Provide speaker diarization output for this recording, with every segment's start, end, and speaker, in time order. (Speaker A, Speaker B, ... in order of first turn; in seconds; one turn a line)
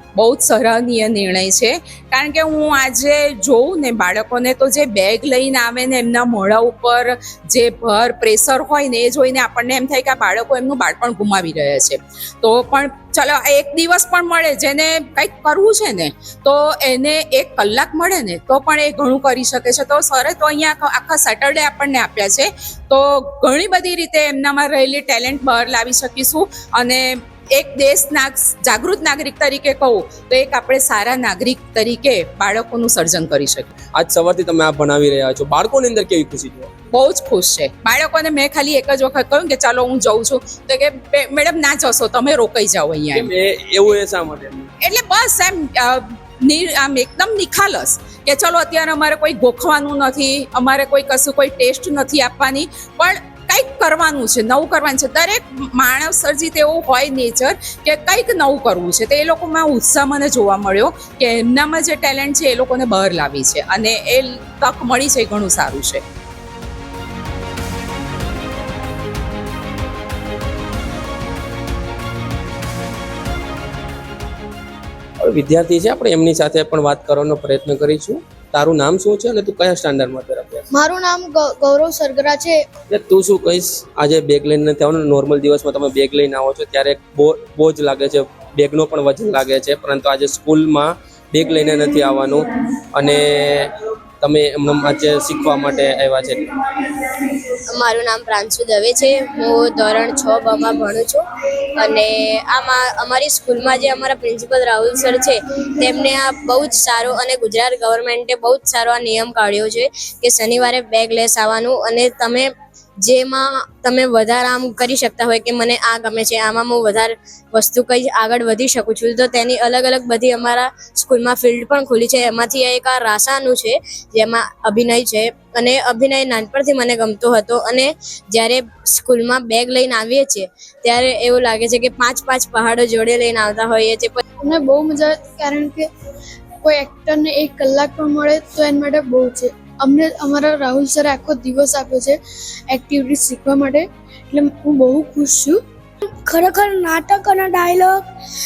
Speaker A: 0.1-33.7
Speaker B: 33.9-36.7
Speaker A: 36.9-43.3
Speaker B: 43.1-44.7
Speaker A: 44.8-66.0
Speaker B: 75.2-80.7
Speaker C: 80.7-82.7
Speaker B: 82.9-96.5
Speaker D: 97.7-101.2
Speaker D: 101.7-112.5
Speaker D: 113.0-134.2
Speaker C: 134.4-135.9
Speaker C: 136.6-145.6
Speaker E: 146.1-148.0